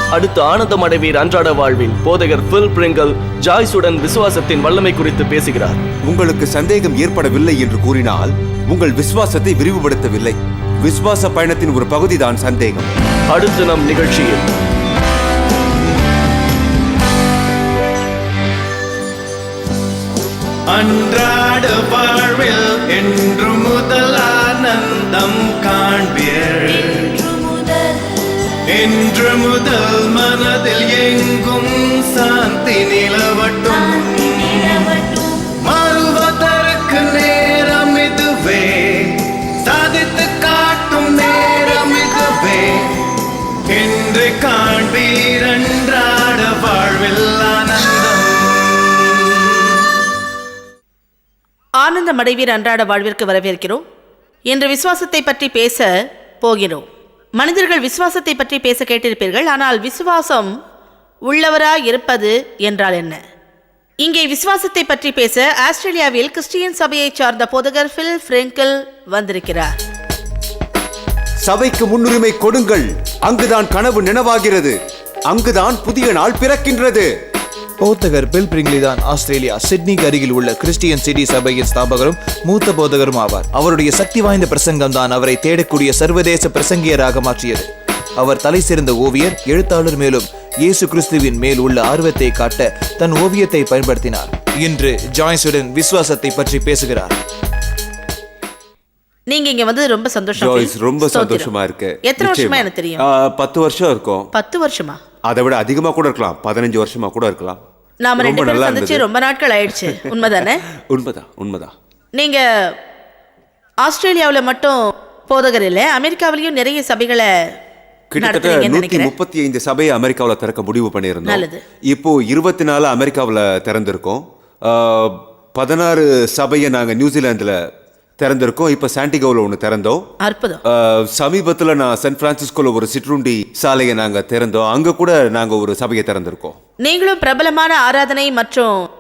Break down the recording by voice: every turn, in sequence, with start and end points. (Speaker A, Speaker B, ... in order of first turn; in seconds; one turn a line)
Speaker A: 0.1-5.8
Speaker B: 6.0-12.9
Speaker A: 13.3-14.5
Speaker C: 20.7-27.3
Speaker C: 28.7-43.0
Speaker C: 43.7-49.7
Speaker D: 51.8-53.8
Speaker D: 54.5-60.5
Speaker D: 61.3-63.2
Speaker D: 64.0-69.7
Speaker B: 71.4-74.8
Speaker B: 75.3-77.1
Speaker E: 77.8-97.1
Speaker D: 99.3-101.5
Speaker B: 100.4-104.3
Speaker D: 102.0-103.0
Speaker D: 104.3-105.0
Speaker B: 105.3-107.6
Speaker D: 108.0-110.6
Speaker B: 108.2-109.0
Speaker B: 109.8-111.7
Speaker D: 112.2-112.5
Speaker D: 113.8-117.3
Speaker B: 118.1-127.6
Speaker D: 118.2-119.1
Speaker D: 121.3-121.6
Speaker B: 128.2-130.1
Speaker D: 130.2-130.6
Speaker B: 130.7-136.6
Speaker D: 136.8-138.8